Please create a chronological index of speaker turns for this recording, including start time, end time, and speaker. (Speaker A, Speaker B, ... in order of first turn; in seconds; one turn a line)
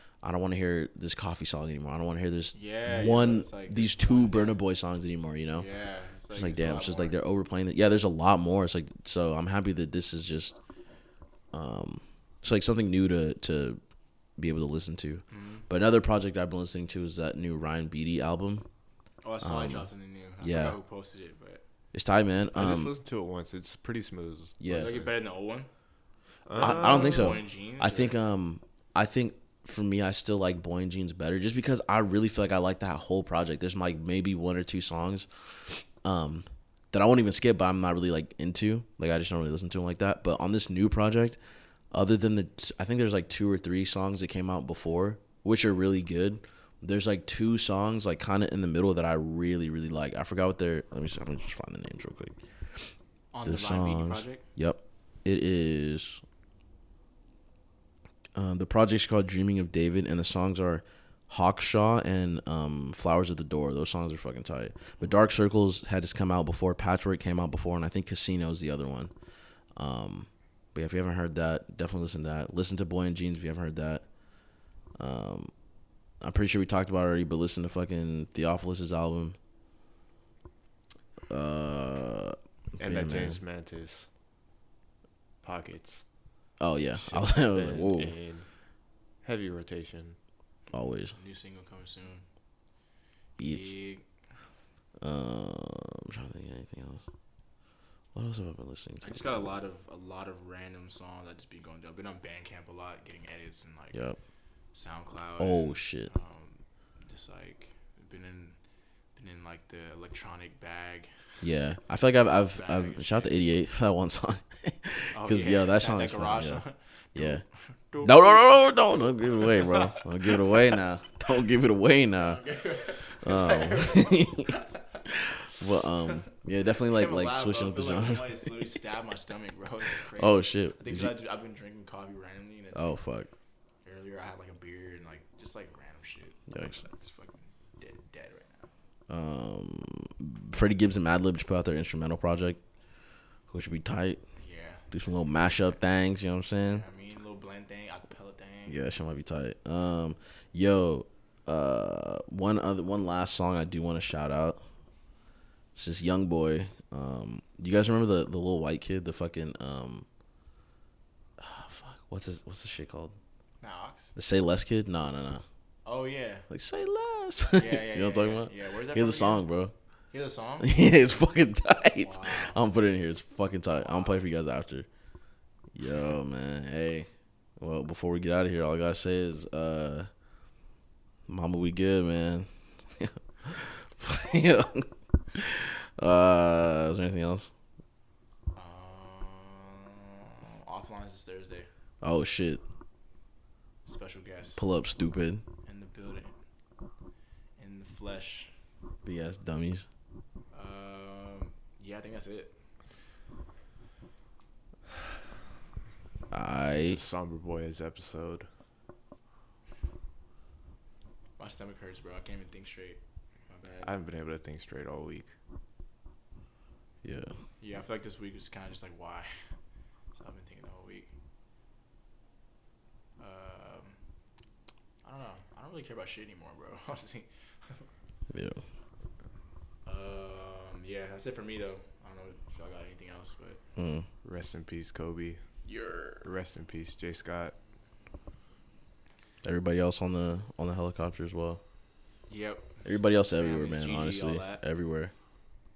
Speaker A: 0.2-5.7
Speaker B: 2.5-4.6
Speaker B: 5.6-7.2
Speaker A: 6.3-10.6
Speaker A: 11.5-13.8
Speaker A: 14.4-18.7
Speaker B: 15.3-15.7
Speaker B: 19.2-21.6
Speaker A: 19.4-20.8
Speaker A: 21.9-22.9
Speaker C: 22.5-25.1
Speaker A: 24.6-24.9
Speaker B: 24.8-25.7
Speaker C: 26.5-27.4
Speaker A: 26.6-41.4
Speaker B: 26.6-28.2
Speaker A: 41.9-52.9
Speaker B: 53.3-54.5
Speaker A: 53.5-56.2
Speaker A: 58.4-69.1
Speaker A: 69.8-74.1
Speaker A: 75.0-75.5
Speaker A: 76.2-79.4
Speaker A: 81.3-83.4
Speaker C: 82.8-84.1
Speaker C: 85.4-86.1
Speaker A: 86.6-88.2
Speaker C: 87.0-88.5
Speaker C: 89.2-90.2
Speaker A: 90.7-91.2
Speaker B: 91.1-92.3
Speaker A: 93.4-93.7
Speaker B: 93.4-94.3
Speaker A: 95.0-97.0
Speaker A: 98.1-99.5
Speaker B: 99.0-104.0
Speaker A: 103.9-104.2
Speaker B: 104.7-108.6
Speaker A: 105.4-106.1
Speaker B: 109.1-111.2
Speaker A: 111.4-117.5
Speaker B: 112.5-113.4
Speaker B: 115.1-120.3
Speaker A: 118.0-122.4
Speaker B: 122.2-124.6
Speaker A: 123.2-128.5
Speaker B: 126.9-133.0
Speaker A: 130.1-131.2
Speaker A: 132.7-133.3
Speaker B: 133.8-138.7
Speaker A: 136.5-136.8
Speaker A: 139.1-142.6
Speaker A: 143.5-144.2
Speaker B: 144.4-145.8
Speaker A: 144.9-146.8
Speaker B: 146.7-148.8
Speaker A: 148.7-154.6
Speaker A: 155.8-160.1
Speaker A: 161.4-163.2
Speaker B: 163.6-164.1
Speaker A: 164.2-165.4
Speaker B: 165.8-166.5
Speaker A: 166.5-169.7
Speaker B: 167.5-169.4
Speaker B: 170.1-170.8
Speaker A: 170.6-174.9
Speaker B: 172.0-172.6
Speaker B: 173.7-174.2
Speaker A: 175.7-180.1
Speaker A: 181.3-187.5
Speaker B: 188.6-191.7
Speaker A: 192.0-192.6
Speaker B: 193.9-194.6
Speaker A: 194.6-195.4
Speaker B: 195.6-196.4
Speaker B: 197.6-198.6
Speaker A: 199.0-199.9
Speaker B: 200.5-202.6
Speaker A: 206.3-207.0
Speaker C: 206.8-208.5
Speaker B: 211.4-214.0
Speaker C: 213.8-215.4
Speaker A: 217.0-217.4
Speaker B: 217.6-219.6
Speaker B: 220.1-221.1
Speaker B: 223.2-224.0
Speaker B: 225.0-227.9
Speaker A: 228.3-228.6
Speaker B: 229.8-233.6
Speaker A: 233.8-234.1
Speaker C: 234.2-235.4
Speaker B: 235.7-236.3
Speaker C: 236.2-237.6
Speaker A: 239.4-241.6
Speaker B: 242.3-244.6
Speaker A: 242.8-245.1